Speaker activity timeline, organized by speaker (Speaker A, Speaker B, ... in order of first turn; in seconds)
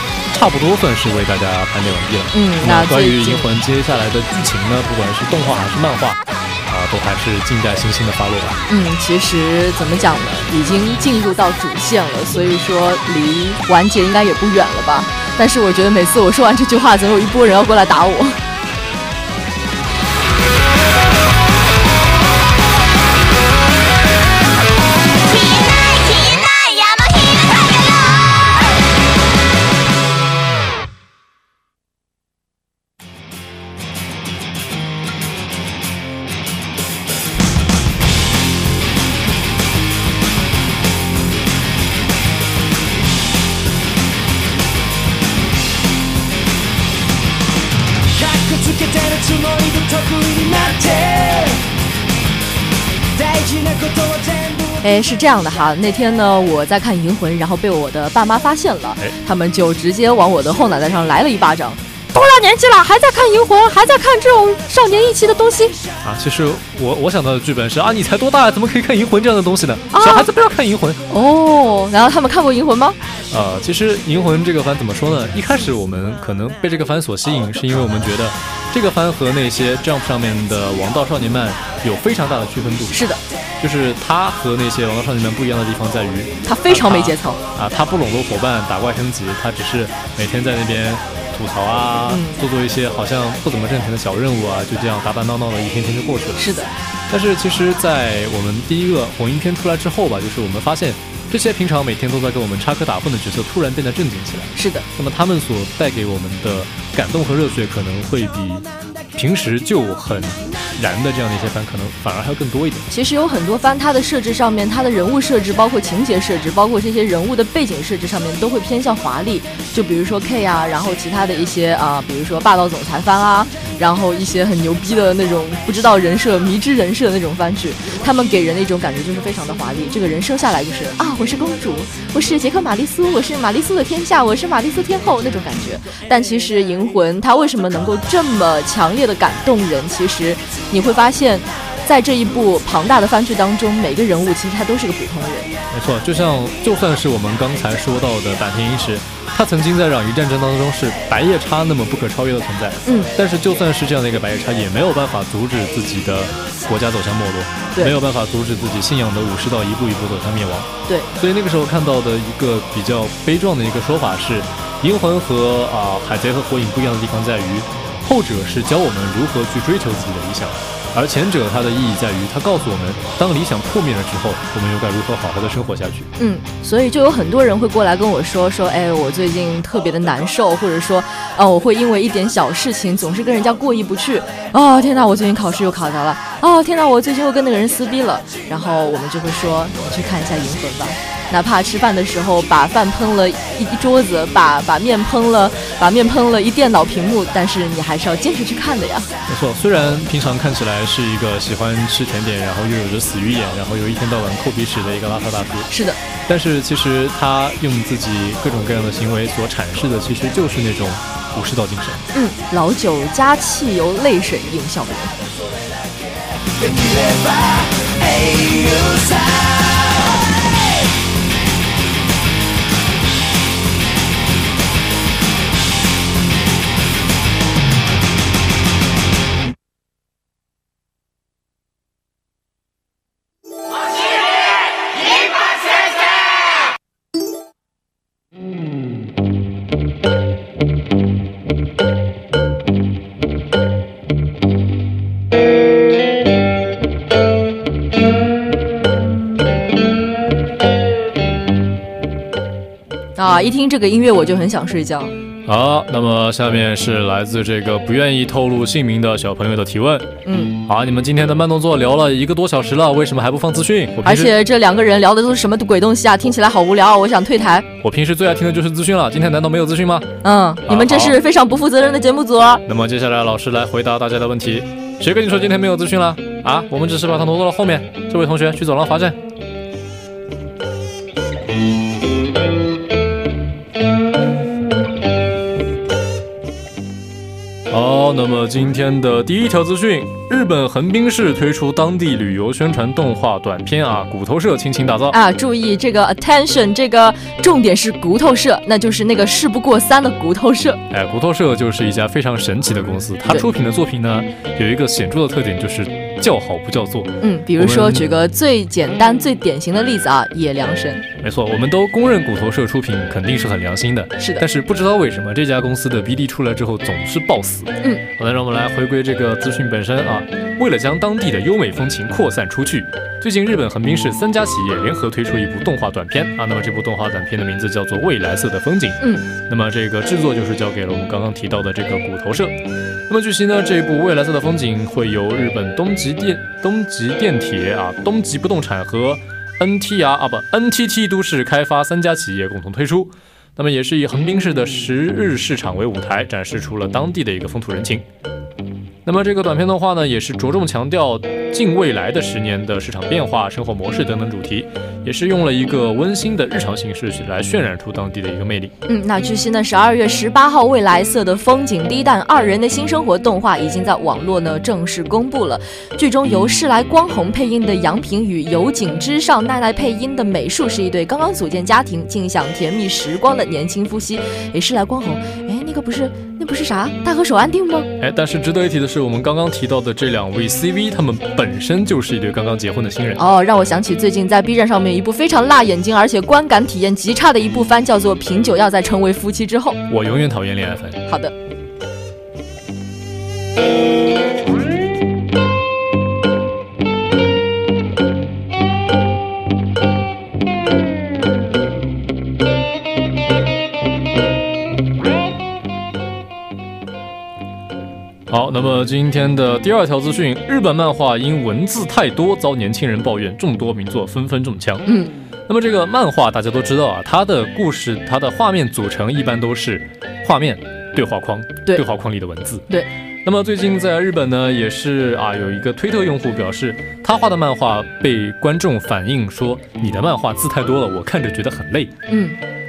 Speaker A: 0.3-8.6, 66.0-71.0, 73.3-83.1, 83.6-96.5, 97.1-112.9, 145.7-176.1, 199.3-205.7, 206.2-212.1, 255.5-260.1, 260.6-264.4, 267.8-270.1, 270.7-271.2, 272.7-279.2, 287.7-295.2, 300.9-308.1, 311.2-332.6, 333.1-348.1, 349.1-358.7, 378.0-383.2, 389.9-391.0, 408.3-414.9, 415.5-422.6, 423.2-431.9
Speaker B: 2.3-3.5, 8.7-18.4, 54.8-65.8, 69.9-70.3, 71.1-73.0, 82.9-83.2, 86.5-87.4, 92.1-92.4, 96.4-96.7, 104.6-104.9, 112.9-145.5, 152.9-153.1, 176.2-199.1, 205.7-206.0, 212.1-215.1, 253.2-255.1, 260.2-260.6, 264.0-267.7, 270.2-272.6, 295.1-300.8, 307.2-311.1, 314.2-314.4, 329.0-329.3, 358.9-377.9, 383.2-389.8, 391.1-391.3, 414.9-415.1, 432.1-432.4
Speaker C: 48.1-51.7, 53.2-54.8, 216.6-220.3